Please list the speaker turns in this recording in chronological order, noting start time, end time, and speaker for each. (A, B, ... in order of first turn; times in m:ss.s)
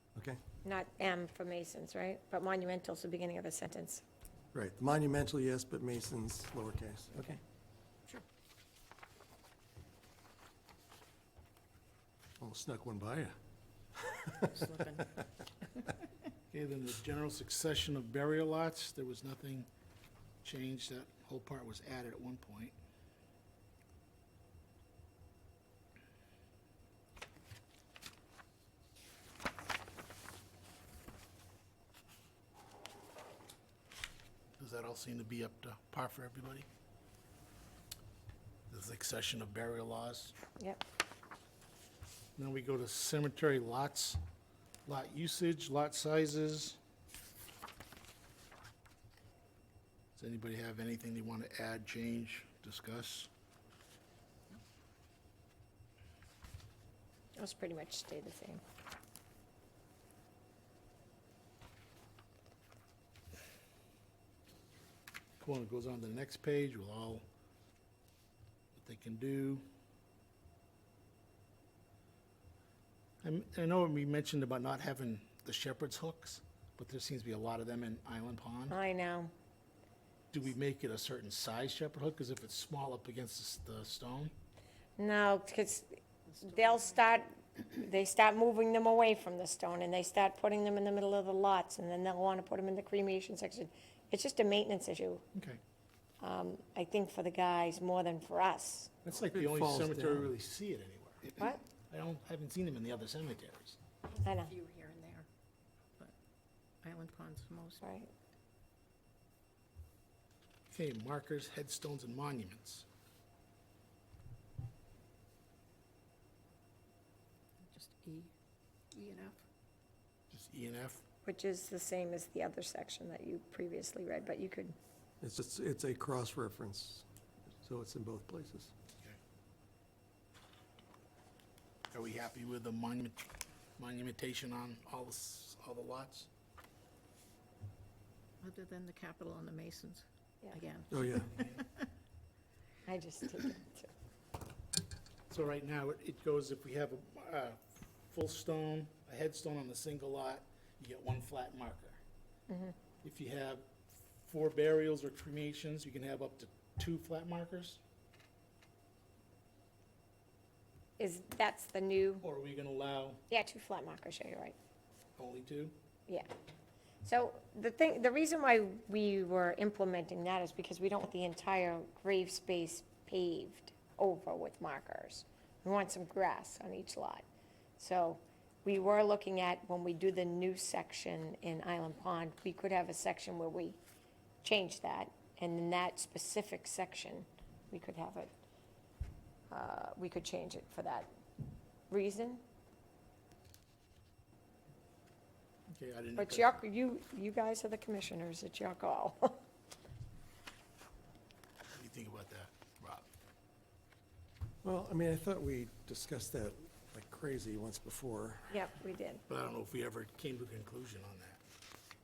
0:00.6-0:04.0 A
0:04.5-0:07.4 B
0:12.4-0:13.4 B
0:13.9-0:14.6 B
0:14.5-0:15.1 C
0:16.5-0:19.7 D
0:20.4-0:22.7 D
0:34.6-0:36.7 D
0:38.7-0:40.3 D
0:42.4-0:44.2 D
0:44.8-0:46.8 D
0:50.2-0:53.3 D
0:57.4-0:58.6 A
1:05.4-1:07.2 D
1:08.7-1:09.6 D
1:13.2-1:18.7 D
1:18.7-1:19.3 A
1:20.3-1:24.3 D
1:25.0-1:35.2 A
1:26.3-1:26.8 C
1:36.2-1:38.9 A
1:39.0-1:40.3 B
1:39.1-1:43.8 D
1:44.2-1:45.3 C
1:44.2-1:44.5 A
1:46.8-1:47.8 C
1:47.8-1:48.1 A
1:50.7-1:52.8 D
1:57.7-1:58.3 C
1:58.9-1:59.4 C
2:00.3-2:01.0 D
2:01.2-2:04.8 A
2:05.2-2:08.7 B
2:11.9-2:16.3 D
2:18.4-2:21.8 C
2:20.9-2:21.3 B
2:20.9-2:21.6 D
2:22.8-2:23.9 A
2:25.3-2:32.0 D
2:32.5-2:32.7 A
2:33.0-2:37.8 D
2:41.0-2:42.2 A
2:42.2-2:43.2 D
2:43.3-2:44.6 A
2:45.2-2:45.7 D
2:47.0-2:57.2 A
2:57.8-3:03.8 A
3:04.4-3:08.3 A
3:09.5-3:11.1 A
3:11.9-3:12.4 A
3:15.7-3:16.6 D
3:16.2-3:19.4 A
3:21.7-3:23.1 D
3:24.6-3:28.5 B
3:28.5-3:29.2 A
3:29.3-3:31.4 D